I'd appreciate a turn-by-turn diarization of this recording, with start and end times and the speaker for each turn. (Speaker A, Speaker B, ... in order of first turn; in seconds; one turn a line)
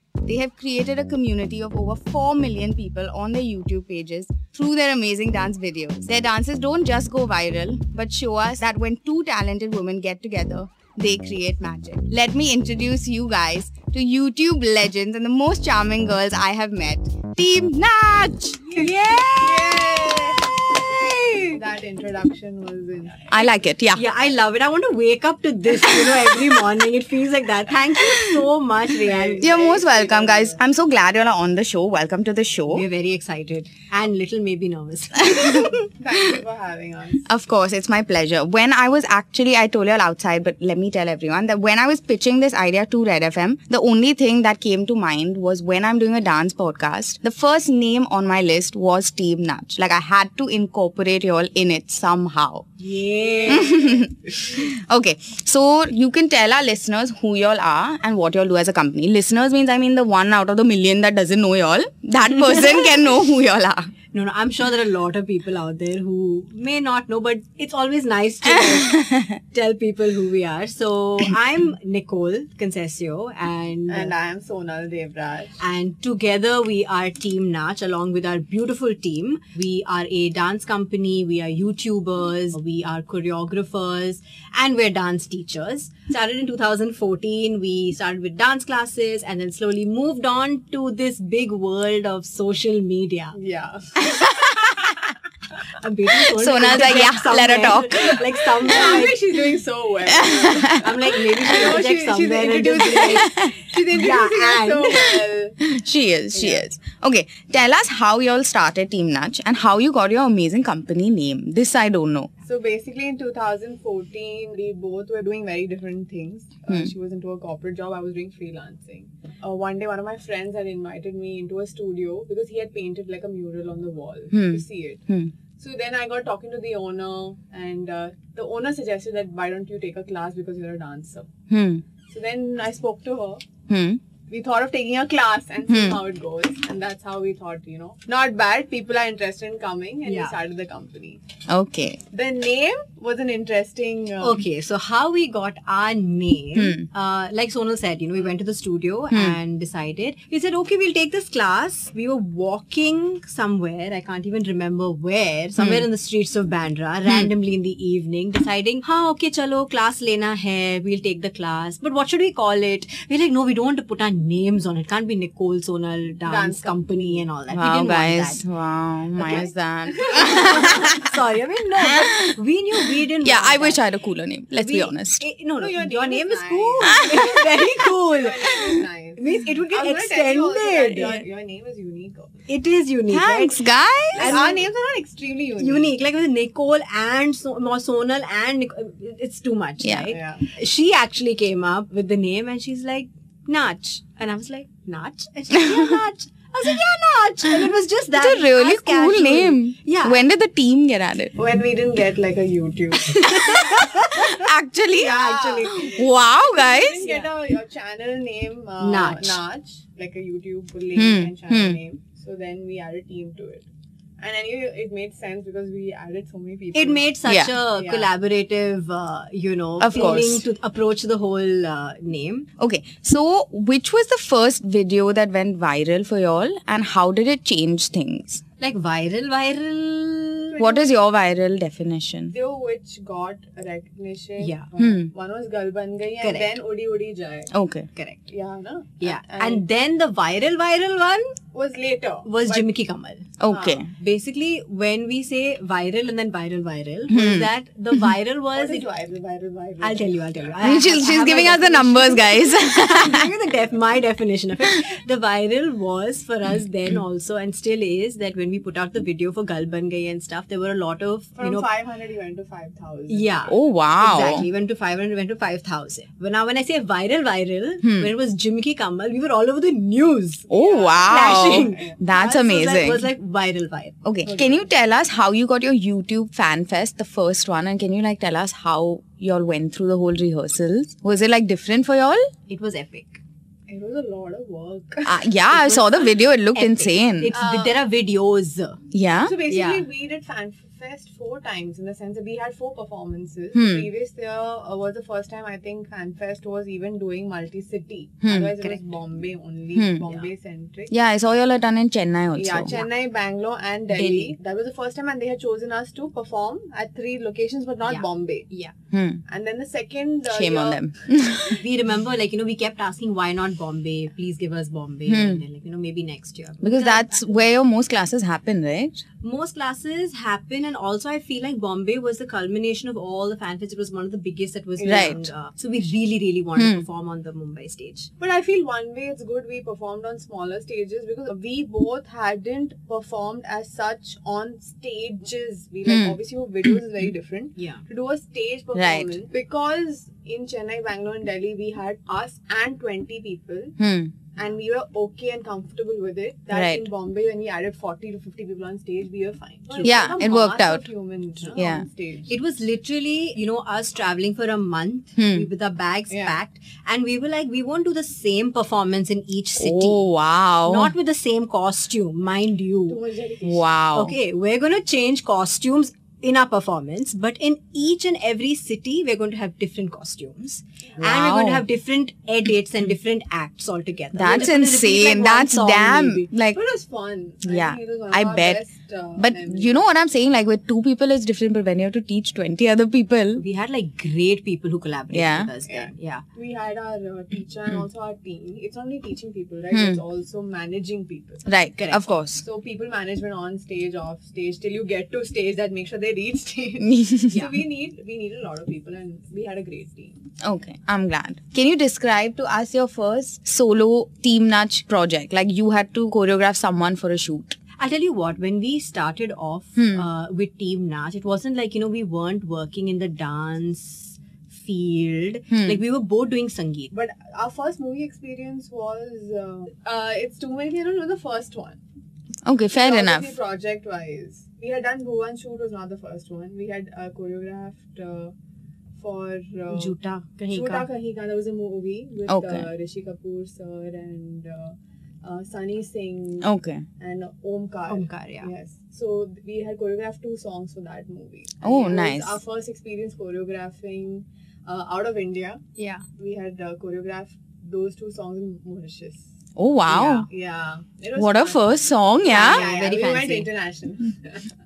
Speaker A: 0.2-18.7
Speaker B: 18.7-20.5
Speaker C: 18.8-21.5
Speaker B: 21.5-23.4
Speaker A: 23.3-24.0
Speaker C: 23.9-29.5
Speaker B: 28.9-30.6
Speaker A: 29.4-32.9
Speaker C: 32.7-35.9
Speaker B: 36.0-37.3
Speaker A: 37.3-52.7
Speaker C: 52.8-53.8
Speaker B: 53.1-54.1
Speaker A: 53.5-63.9
Speaker C: 64.1-74.1
Speaker A: 68.7-69.3
Speaker B: 73.9-75.6
Speaker C: 75.6-93.4
Speaker B: 93.3-94.0
Speaker A: 94.1-94.7
Speaker C: 95.8-99.2
Speaker A: 96.3-98.3
Speaker B: 98.7-105.6
Speaker A: 100.1-100.8
Speaker C: 100.8-103.3
Speaker C: 103.9-105.0
Speaker A: 105.6-112.3
Speaker B: 106.3-106.6
Speaker B: 112.4-125.0
Speaker A: 124.3-125.3
Speaker B: 125.6-131.3
Speaker A: 131.5-131.8
Speaker B: 132.1-133.4
Speaker A: 133.7-134.0
Speaker B: 134.3-141.2
Speaker A: 135.7-136.0
Speaker C: 140.1-140.3
Speaker A: 141.5-142.0
Speaker B: 142.1-144.4
Speaker C: 144.2-168.4
Speaker A: 146.6-146.9
Speaker A: 149.1-149.4
Speaker A: 155.6-155.9
Speaker B: 166.3-167.3
Speaker A: 167.5-171.1
Speaker B: 169.2-170.8
Speaker C: 170.1-173.8
Speaker A: 171.8-172.4
Speaker A: 173.0-175.2
Speaker C: 174.6-178.6
Speaker B: 175.6-182.3
Speaker A: 177.0-177.3
Speaker C: 179.2-181.2
Speaker C: 182.5-183.6
Speaker A: 183.1-184.4
Speaker C: 184.2-184.6
Speaker B: 184.2-185.9
Speaker C: 185.6-200.2
Speaker A: 189.8-190.1
Speaker B: 190.1-190.5
Speaker A: 198.1-201.3
Speaker B: 201.4-203.6
Speaker C: 203.1-204.4
Speaker A: 203.8-205.2
Speaker B: 204.9-213.7
Speaker C: 205.0-205.9
Speaker A: 205.7-207.1
Speaker C: 208.8-209.4
Speaker A: 210.9-211.8
Speaker B: 214.2-217.1
Speaker C: 216.7-222.5
Speaker A: 217.3-217.5
Speaker B: 217.8-218.1
Speaker A: 219.8-220.4
Speaker A: 222.6-228.4
Speaker C: 228.6-230.6
Speaker B: 230.5-230.9
Speaker A: 230.6-232.3
Speaker B: 232.3-237.5
Speaker C: 234.4-234.7
Speaker A: 234.8-235.1
Speaker C: 236.2-236.5
Speaker A: 237.5-237.9
Speaker C: 238.0-238.2
Speaker B: 238.3-239.6
Speaker C: 239.0-241.4
Speaker B: 241.5-242.7
Speaker C: 242.3-243.3
Speaker A: 243.4-243.9
Speaker B: 243.5-243.8
Speaker C: 243.9-248.8
Speaker A: 247.1-247.5
Speaker B: 248.6-250.3
Speaker C: 249.8-261.7
Speaker A: 250.6-253.3
Speaker B: 261.4-263.5
Speaker C: 263.1-270.5
Speaker A: 263.5-264.5
Speaker A: 267.8-268.1
Speaker B: 270.5-272.0
Speaker A: 270.5-273.1
Speaker C: 271.1-273.9
Speaker A: 274.0-282.3
Speaker B: 274.2-274.6
Speaker C: 282.5-283.2
Speaker B: 283.7-285.3
Speaker A: 285.1-287.3
Speaker C: 286.5-288.8
Speaker B: 287.3-287.8
Speaker A: 288.9-289.4
Speaker B: 289.2-300.9
Speaker C: 289.5-289.9
Speaker A: 293.5-293.9
Speaker A: 298.2-298.6
Speaker A: 299.7-300.1
Speaker A: 300.9-302.8
Speaker B: 302.4-308.5
Speaker C: 303.9-304.4
Speaker C: 307.9-308.7
Speaker A: 308.9-309.2
Speaker B: 309.3-310.9
Speaker A: 310.3-311.6
Speaker C: 311.6-317.1
Speaker A: 315.1-315.4
Speaker A: 316.6-319.0
Speaker C: 319.2-328.1
Speaker B: 324.8-325.3
Speaker A: 324.9-325.2
Speaker A: 326.6-326.9
Speaker B: 328.2-343.8
Speaker A: 335.9-336.7
Speaker C: 337.6-337.8
Speaker A: 338.8-339.2
Speaker A: 343.8-344.1
Speaker B: 344.4-352.3
Speaker A: 346.5-346.9
Speaker C: 349.7-350.0
Speaker A: 349.8-350.9
Speaker A: 351.6-351.9
Speaker C: 352.3-360.0
Speaker A: 355.2-355.5
Speaker B: 356.1-356.4
Speaker A: 359.6-360.9
Speaker C: 360.6-363.0
Speaker B: 362.9-363.6
Speaker A: 363.4-364.2
Speaker C: 363.9-376.3
Speaker A: 371.0-371.6
Speaker A: 374.1-376.6
Speaker B: 376.5-379.8
Speaker A: 377.4-378.6
Speaker A: 379.2-383.4
Speaker C: 383.4-386.2
Speaker A: 385.1-385.5
Speaker B: 385.7-391.4
Speaker A: 389.7-390.0
Speaker A: 391.5-392.4
Speaker C: 391.8-392.0
Speaker B: 392.4-400.1
Speaker A: 396.8-397.5
Speaker A: 400.4-407.6
Speaker C: 407.8-416.9
Speaker A: 409.8-410.1
Speaker A: 415.5-415.8
Speaker B: 416.9-421.8
Speaker A: 422.4-423.3
Speaker B: 422.8-428.3
Speaker B: 429.0-429.9
Speaker C: 429.7-430.9
Speaker B: 430.5-445.6
Speaker A: 432.3-432.7
Speaker A: 436.4-436.9
Speaker C: 437.9-438.5
Speaker A: 441.6-442.4
Speaker C: 445.8-446.0
Speaker B: 446.2-449.2
Speaker A: 449.6-450.3
Speaker C: 449.9-450.2
Speaker B: 450.0-451.6
Speaker A: 451.1-452.6
Speaker C: 452.3-453.5
Speaker B: 452.3-454.4